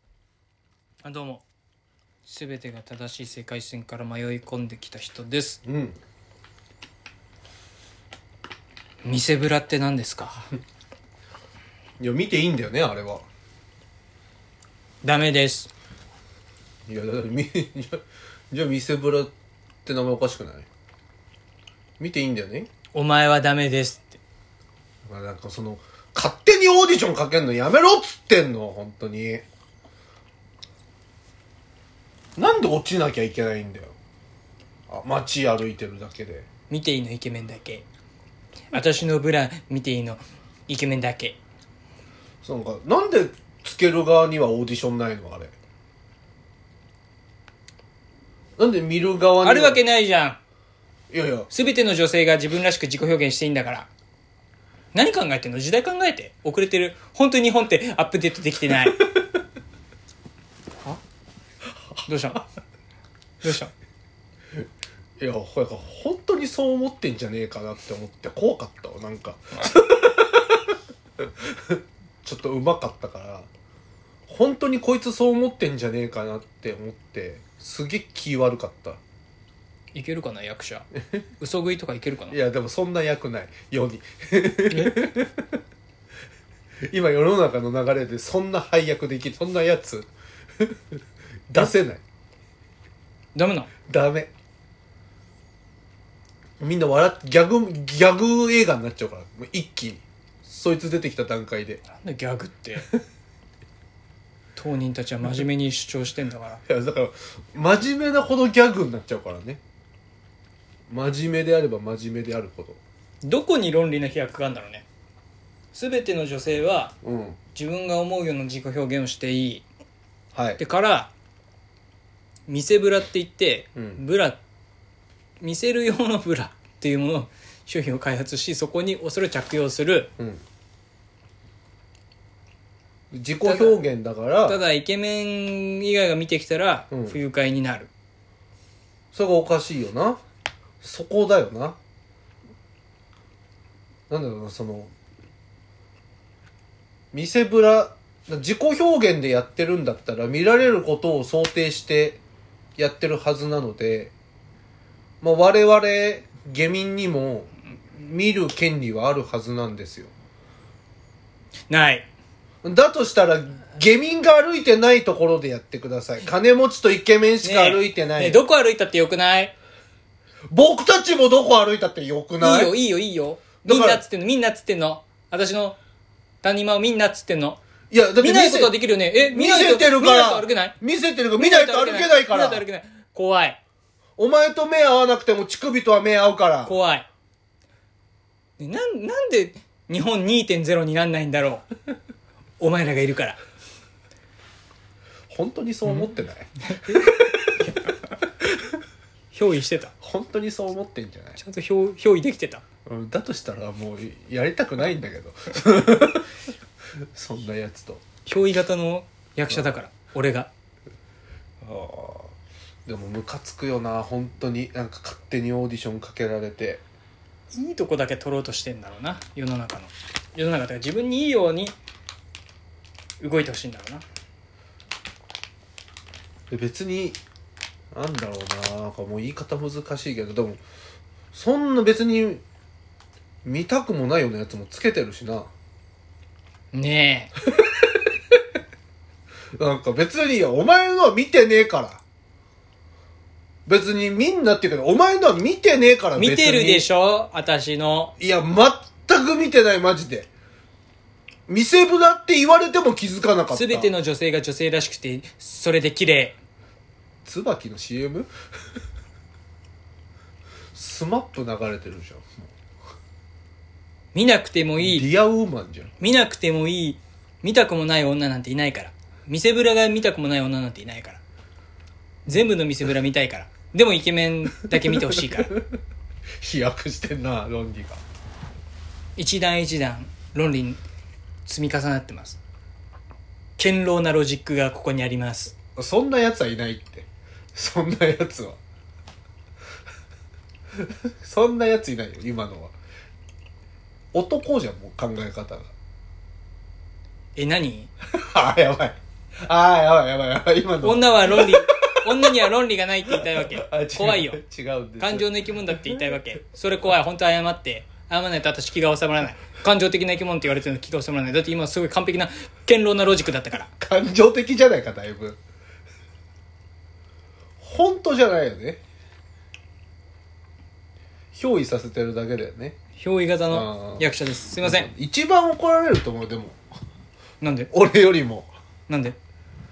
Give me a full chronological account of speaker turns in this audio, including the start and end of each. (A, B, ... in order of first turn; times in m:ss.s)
0:01.0-0:01.4 A
0:02.2-0:05.6 A
0:05.6-0:06.0 B
0:09.0-0:10.5 A
0:12.0-0:13.2 B
0:15.0-0:15.7 A
0:16.9-0:19.3 B
0:19.9-0:20.7 B
0:22.0-0:22.7 B
0:22.9-0:24.2 A
0:25.0-0:29.4 B
0:32.4-0:34.0 B
0:34.9-0:36.4 B
0:36.7-0:37.8 A
0:38.7-0:41.4 A
0:42.4-0:45.5 B
0:48.6-0:49.8 B
0:49.4-0:50.4 A
0:51.1-0:51.5 B
0:51.5-0:53.9 A
0:54.9-0:59.0 A
1:02.0-1:02.5 A
1:03.4-1:03.7 A
1:05.2-1:10.6 B
1:11.4-1:13.5 B
1:14.3-1:19.0 B
1:19.9-1:20.9 A
1:21.4-1:22.4 A
1:22.3-1:25.4 B
1:24.7-1:25.1 A
1:26.9-1:30.1 B
1:31.5-1:32.0 B
1:33.3-1:33.7 A
1:33.9-1:34.3 B
1:36.6-1:41.8 B
1:41.9-1:42.9 A
1:44.6-1:46.6 A
1:46.7-1:49.6 B
1:50.9-1:52.8 B
1:53.2-1:54.9 A
1:55.7-1:56.9 A
1:57.0-1:57.4 B
1:57.6-1:59.6 A
2:00.3-2:00.6 B
2:00.6-2:01.1 A
2:02.5-2:04.4 A
2:05.4-2:10.1 A
2:13.1-2:14.6 B
2:13.4-2:13.8 A
2:14.4-2:17.9 A
2:16.9-2:17.2 B
2:19.1-2:20.2 B
2:20.8-2:21.8 B
2:24.1-2:24.9 B
2:27.1-2:32.2 B
2:32.8-2:34.1 B
2:35.2-2:40.1 B
2:41.7-2:42.1 A
2:42.6-2:48.4 B
2:47.4-2:49.5 A
2:50.5-2:52.7 B
2:52.4-2:55.8 A
2:53.6-2:54.0 B
2:56.4-2:57.6 A
2:57.9-3:02.6 B
2:58.2-3:00.8 A
3:01.3-3:03.6 A
3:04.2-3:06.8 B
3:06.6-3:07.1 A
3:08.6-3:11.7 A
3:12.6-3:13.4 A
3:15.3-3:17.1 B
3:16.7-3:17.9 A
3:19.3-3:19.9 A
3:20.0-3:21.4 B
3:21.4-3:22.6 A
3:22.8-3:26.3 B
3:27.1-3:28.0 B
3:28.2-3:30.5 A
3:31.6-3:32.3 B
3:32.8-3:36.8 B
3:37.5-3:41.8 A
3:43.2-3:44.0 A
3:46.5-3:47.2 B
3:47.9-3:50.6 B
3:51.3-3:52.4 B
3:53.4-3:55.5 B
3:56.7-3:57.3 A
3:59.6-4:02.0 B
4:03.7-4:06.9 B
4:06.1-4:08.1 A
4:08.2-4:10.3 B
4:11.5-4:13.9 B
4:13.5-4:16.4 A
4:17.2-4:18.3 B
4:20.8-4:22.5 B
4:24.1-4:25.1 A
4:24.8-4:25.9 B
4:26.0-4:31.2 A
4:32.2-4:35.5 A
4:35.0-4:35.6 B
4:36.4-4:38.0 B
4:39.2-4:40.8 A
4:41.5-4:42.4 A
4:43.6-4:45.6 A
4:45.8-4:48.6 B
4:51.2-4:52.7 B
4:54.1-4:55.7 B
4:57.4-4:57.9 A
4:58.1-5:02.3 B
5:00.8-5:04.4 A
5:03.2-5:05.9 B
5:05.0-5:13.7 A
5:13.8-5:15.4 B
5:17.6-5:18.8 B
5:21.3-5:22.8 B
5:23.0-5:24.9 A
5:23.5-5:24.1 B
5:24.6-5:26.6 B
5:27.4-5:27.7 A
5:27.7-5:28.5 B
5:28.9-5:29.2 A